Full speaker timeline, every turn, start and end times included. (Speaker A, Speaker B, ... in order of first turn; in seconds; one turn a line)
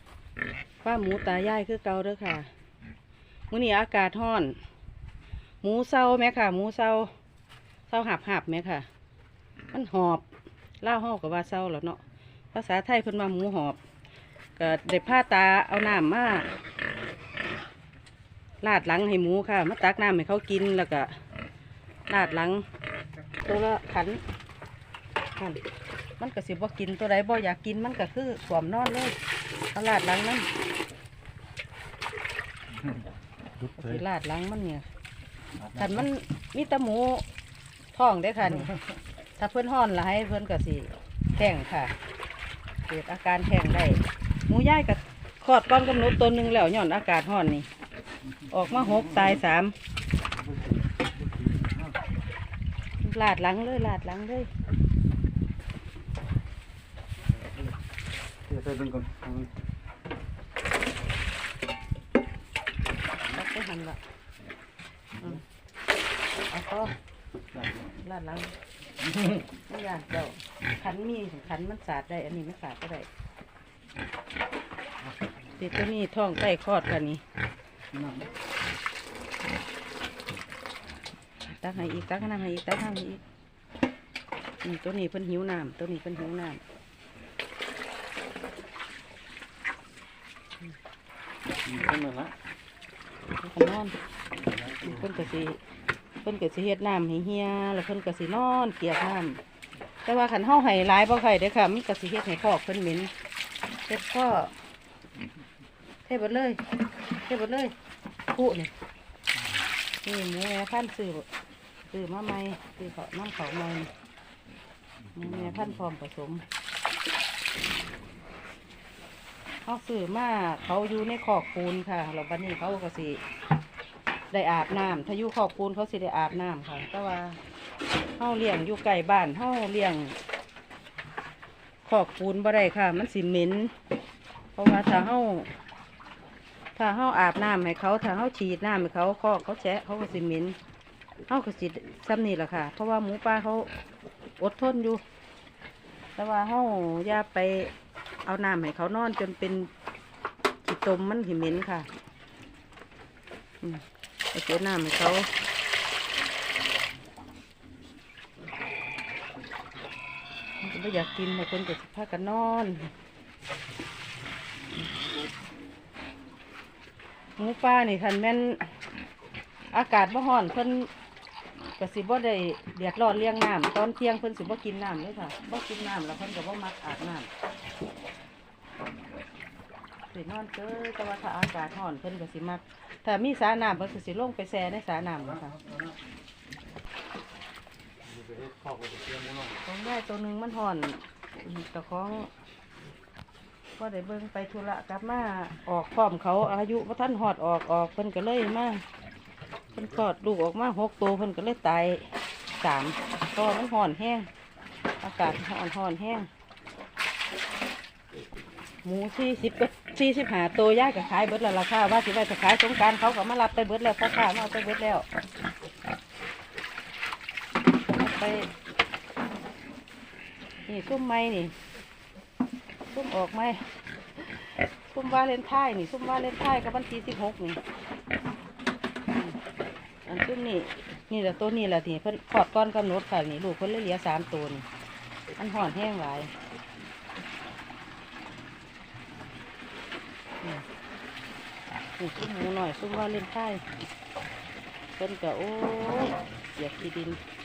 Speaker A: 0.8-2.5
Speaker A: 3.5-4.6
Speaker A: 5.6-7.1
Speaker A: 7.9-8.9
Speaker A: 9.7-10.2
Speaker A: 10.8-12.0
Speaker A: 12.5-13.8
Speaker A: 14.6-16.5
Speaker A: 18.6-21.1
Speaker A: 22.1-22.7
Speaker A: 23.4-24.2
Speaker A: 26.2-29.2
Speaker A: 29.7-30.5
Speaker A: 33.7-34.9
Speaker A: 35.7-37.2
Speaker A: 37.9-38.8
Speaker A: 39.4-41.9
Speaker A: 42.9-47.7
Speaker A: 48.5-49.7
Speaker B: 50.5-50.8
Speaker B: 51.3-51.8
Speaker A: 53.0-54.5
Speaker B: 58.5-59.5
Speaker A: 63.3-64.0
Speaker A: 66.5-66.9
Speaker B: 67.5-67.9
Speaker A: 68.0-68.5
Speaker A: 69.5-73.1
Speaker A: 75.6-77.2
Speaker B: 77.9-78.3
Speaker A: 81.4-83.2
Speaker A: 84.6-86.6
Speaker B: 91.7-92.3
Speaker A: 93.4-94.0
Speaker A: 94.8-95.6
Speaker A: 96.2-99.4
Speaker A: 100.0-103.1
Speaker A: 103.9-104.5
Speaker A: 106.0-106.6
Speaker A: 107.2-107.8
Speaker A: 108.3-108.7
Speaker A: 110.0-111.3
Speaker A: 111.9-113.9
Speaker A: 115.2-116.5
Speaker A: 119.7-123.2
Speaker A: 124.3-127.4
Speaker A: 128.2-130.2
Speaker A: 131.9-133.7
Speaker A: 134.6-135.5
Speaker A: 136.8-140.6
Speaker A: 141.3-143.7
Speaker A: 144.4-145.0
Speaker A: 146.2-147.7
Speaker A: 148.2-149.7
Speaker A: 150.6-151.9
Speaker A: 153.6-155.3
Speaker A: 160.6-162.9
Speaker A: 167.4-168.8
Speaker A: 169.7-170.9
Speaker A: 171.8-177.3
Speaker A: 180.1-185.6
Speaker B: 185.6-185.9
Speaker B: 188.1-189.6
Speaker A: 189.6-192.3
Speaker A: 193.8-198.8
Speaker A: 199.7-204.3
Speaker A: 205.0-206.3
Speaker A: 208.8-215.1
Speaker A: 217.8-218.5
Speaker A: 220.7-221.6
Speaker A: 222.9-223.7
Speaker A: 224.9-227.6
Speaker A: 230.1-234.7
Speaker A: 235.4-236.3
Speaker A: 242.0-243.7
Speaker A: 245.0-247.2